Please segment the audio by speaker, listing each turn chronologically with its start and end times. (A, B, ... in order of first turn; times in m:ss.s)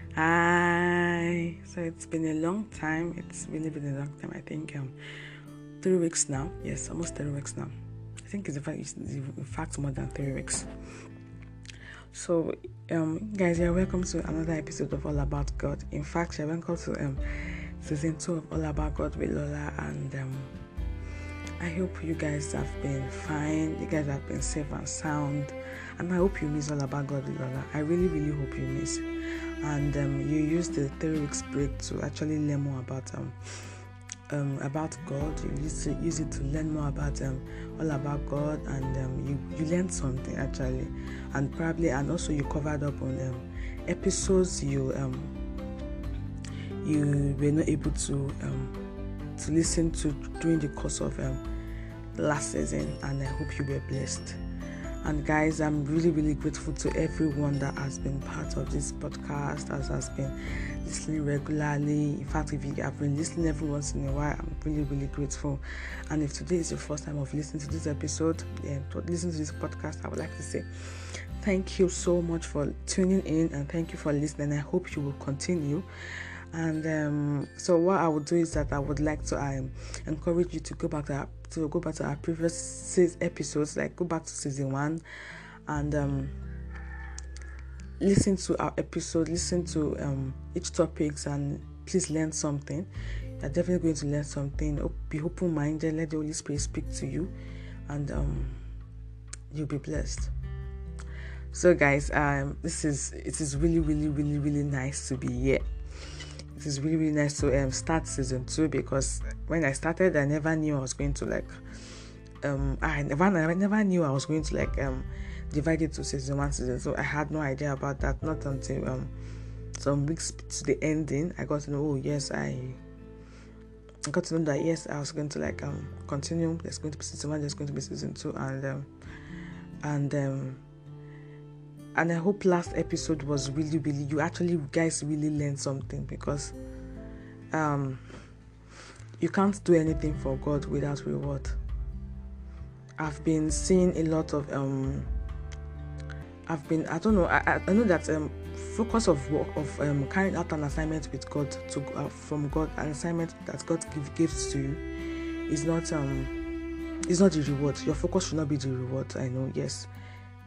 0:00.2-0:04.9 A
0:05.8-0:10.7 A
0:12.1-0:17.2 A
0:17.8-0:20.5 A
0:21.6-0:29.0 A
0:29.6-0:33.4 A
0:34.3-0:45.3 A
0:46.8-0:48.7 A
0:49.4-0:51.4 A
0:52.1-0:54.4 A
0:55.0-1:15.9 A
1:16.5-1:25.0 A
1:25.7-1:26.3 A
1:28.0-1:32.9 A
1:33.4-1:37.3 A
1:37.9-1:38.6 A
1:39.5-1:40.3 A
1:41.5-1:45.6 A
1:46.5-1:51.6 A
1:52.4-1:59.1 A
1:59.8-2:02.8 A
2:04.0-2:08.9 A
2:09.8-2:10.6 A
2:11.9-2:16.5 A
2:17.5-2:18.0 A
2:19.2-2:21.6 A
2:23.0-2:25.1 A
2:26.5-2:34.8 A
2:35.5-2:36.3 A
2:37.1-2:39.9 A